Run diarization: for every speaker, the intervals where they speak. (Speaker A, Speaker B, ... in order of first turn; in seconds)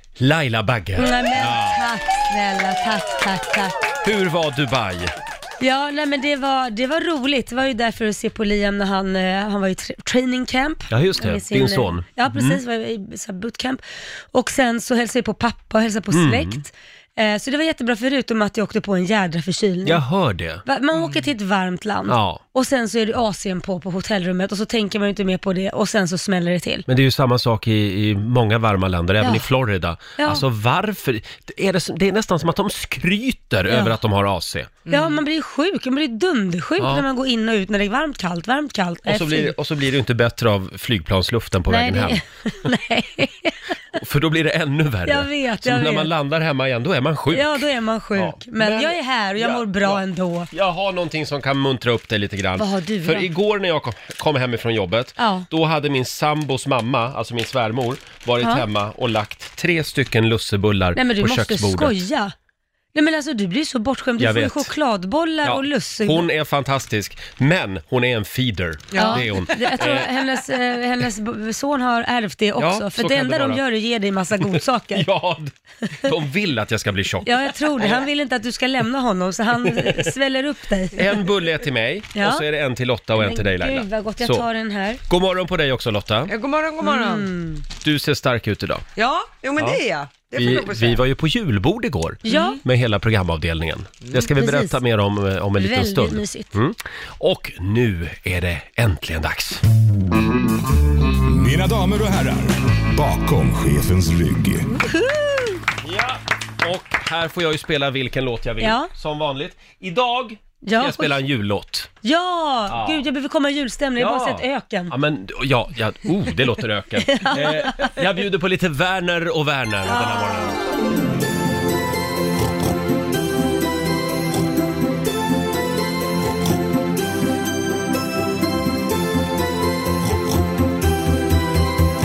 Speaker A: 0.2-1.8, 4.0-5.1, 10.9-12.6, 16.1-16.6, 19.8-20.6, 22.1-22.4, 26.9-34.7, 36.8-37.0, 39.0-42.2, 44.0-47.6, 48.1-62.0, 64.2-64.7, 65.4-70.1, 72.6-73.6, 74.4-75.5, 76.0-78.1, 79.7-80.0, 81.0-84.5, 85.1-86.3, 87.8-88.8, 90.3-99.6, 105.8-111.9, 112.7-113.0, 114.0-120.5
Speaker B: 0.9-3.7, 5.6-13.8, 14.3-20.0, 20.6-26.8, 29.2-29.4, 30.2-30.4, 33.7-34.0, 34.9-39.5, 41.7-43.5, 45.0-46.1, 47.3-50.5, 52.6-53.3, 55.2-55.5, 61.0-62.3, 62.9-66.2, 69.0-75.1, 77.2-81.1, 82.2-82.4, 83.2-85.0, 86.8-87.6, 92.2-92.6, 94.3-94.8, 95.6-96.5, 104.7-105.6, 108.6-108.9, 110.6-111.2, 112.0-114.9, 117.0-118.0, 119.9-120.5
Speaker C: 34.9-35.2, 68.9-69.3, 86.3-87.3, 89.0-91.0
Speaker D: 101.3-104.7